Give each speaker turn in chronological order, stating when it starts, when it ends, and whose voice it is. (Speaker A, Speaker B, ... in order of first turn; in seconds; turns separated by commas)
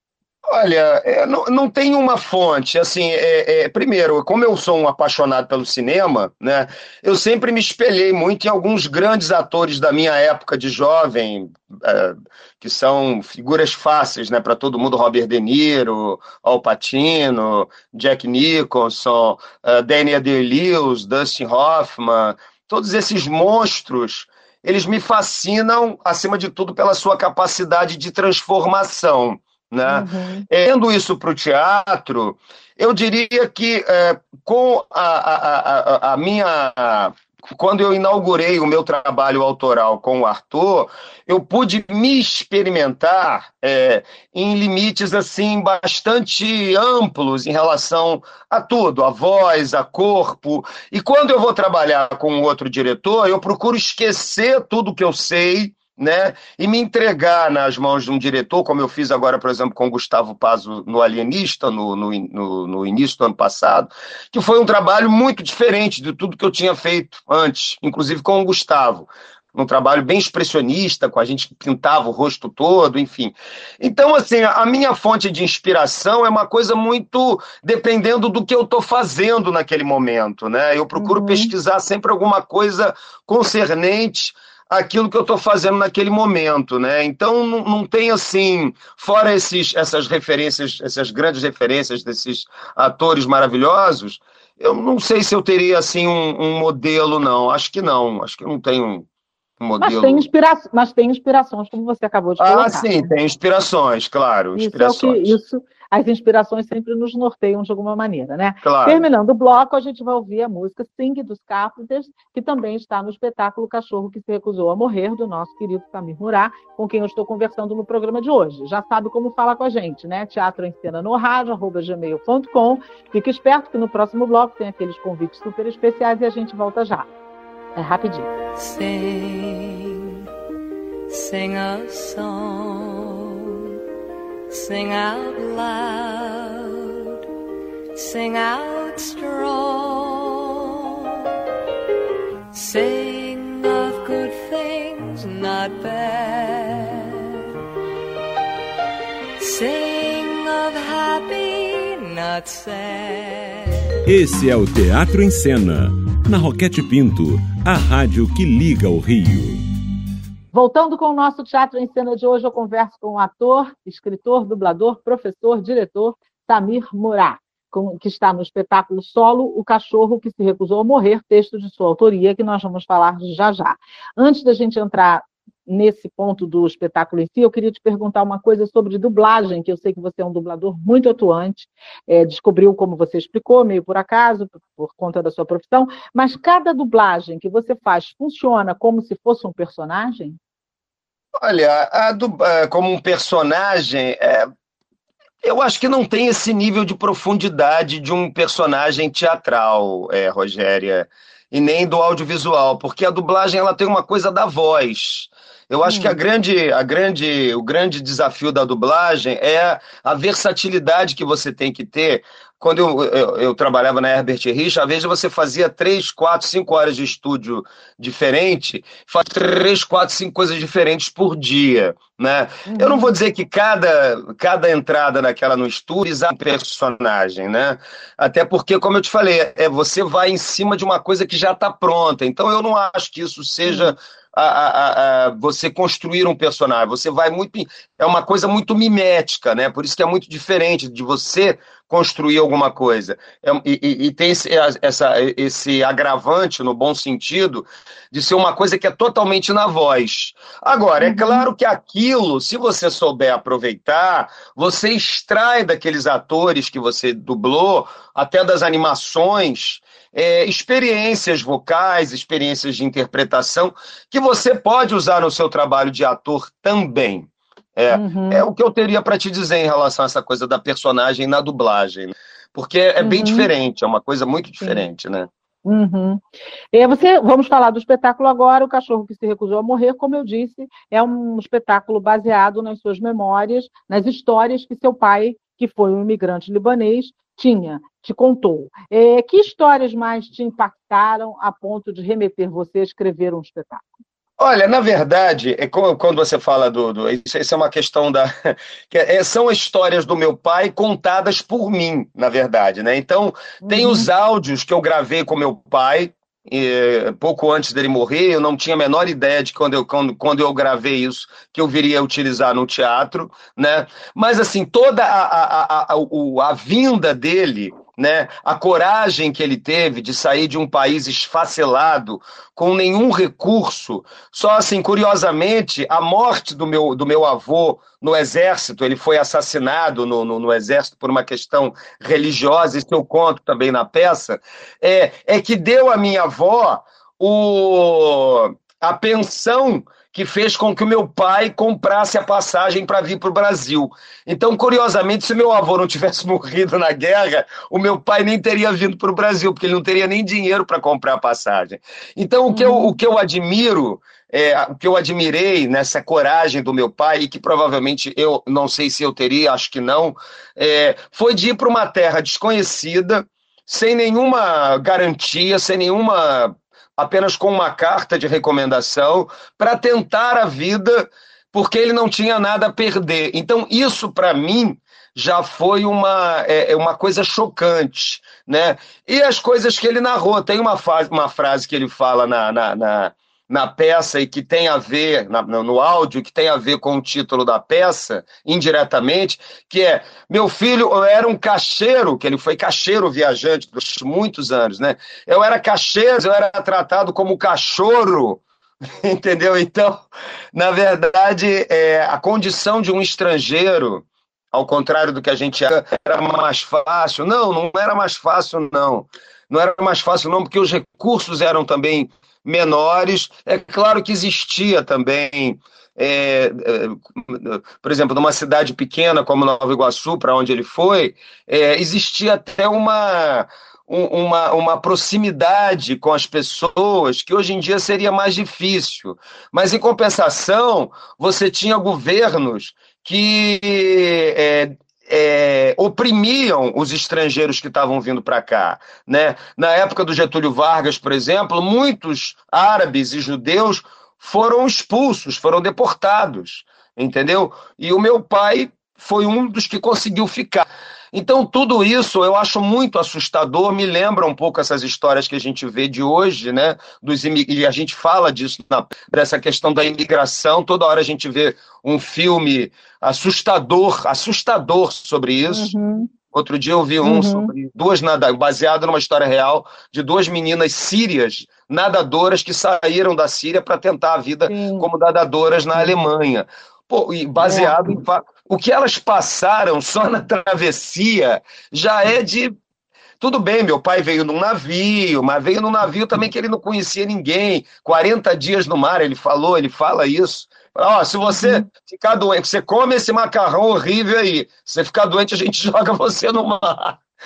Speaker A: 0.5-99.1, Speaker B: 29.9-30.4, Speaker B: 80.9-81.5, Speaker A: 99.6-100.3, Speaker B: 99.8-103.1, Speaker A: 102.4-105.4, Speaker B: 104.5-127.1, Speaker A: 108.6-109.0, Speaker B: 127.8-128.3, Speaker C: 128.5-130.2, Speaker C: 131.1-133.7, Speaker C: 134.5-137.2, Speaker C: 137.9-141.2, Speaker C: 142.5-147.4, Speaker C: 149.4-153.8, Speaker D: 154.1-159.6, Speaker B: 160.5-190.4, Speaker A: 191.4-194.5, Speaker A: 195.4-275.3, Speaker B: 205.8-206.2, Speaker B: 222.7-223.1, Speaker B: 233.7-233.9, Speaker B: 251.0-251.4, Speaker B: 267.9-268.4, Speaker B: 273.0-273.5, Speaker B: 275.6-276.2, Speaker B: 276.7-293.8, Speaker A: 294.4-398.4, Speaker B: 303.6-304.1, Speaker B: 352.5-352.9, Speaker A: 399.0-465.7, Speaker B: 465.5-466.1, Speaker A: 466.3-482.5, Speaker B: 467.0-467.5, Speaker B: 474.5-474.9, Speaker B: 477.4-477.8, Speaker A: 483.2-497.0, Speaker B: 491.3-491.6